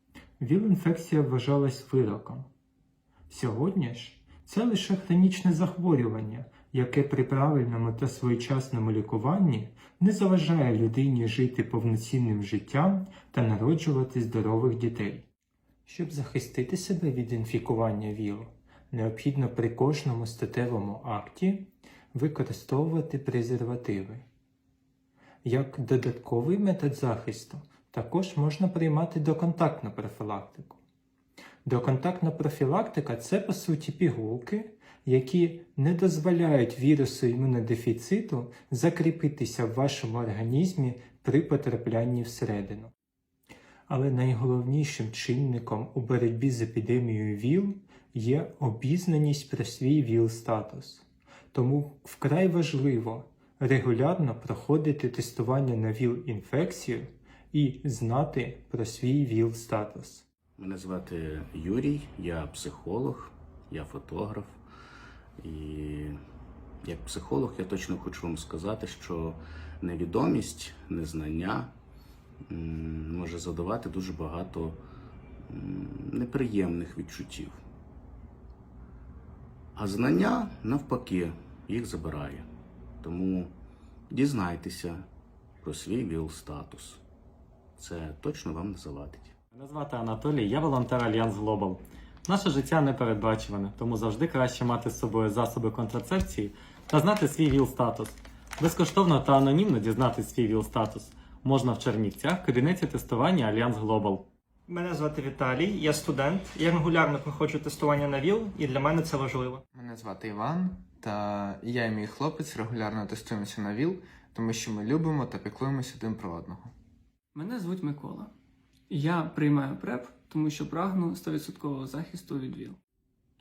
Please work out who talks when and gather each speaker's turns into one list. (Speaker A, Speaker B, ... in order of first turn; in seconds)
Speaker A: 0.4-2.5, 3.3-15.2, 15.8-24.2, 25.4-30.8, 31.6-42.9, 43.9-60.2
Speaker B: 60.6-64.6, 65.4-66.2, 66.8-71.7, 72.5-74.8, 75.5-77.6, 79.8-82.5, 83.0-83.5, 84.1-85.0, 85.6-87.0, 87.8-89.3
Speaker C: 89.5-104.2
Speaker D: 104.7-109.6
Speaker E: 109.7-116.7
Speaker F: 117.3-118.3, 118.9-122.8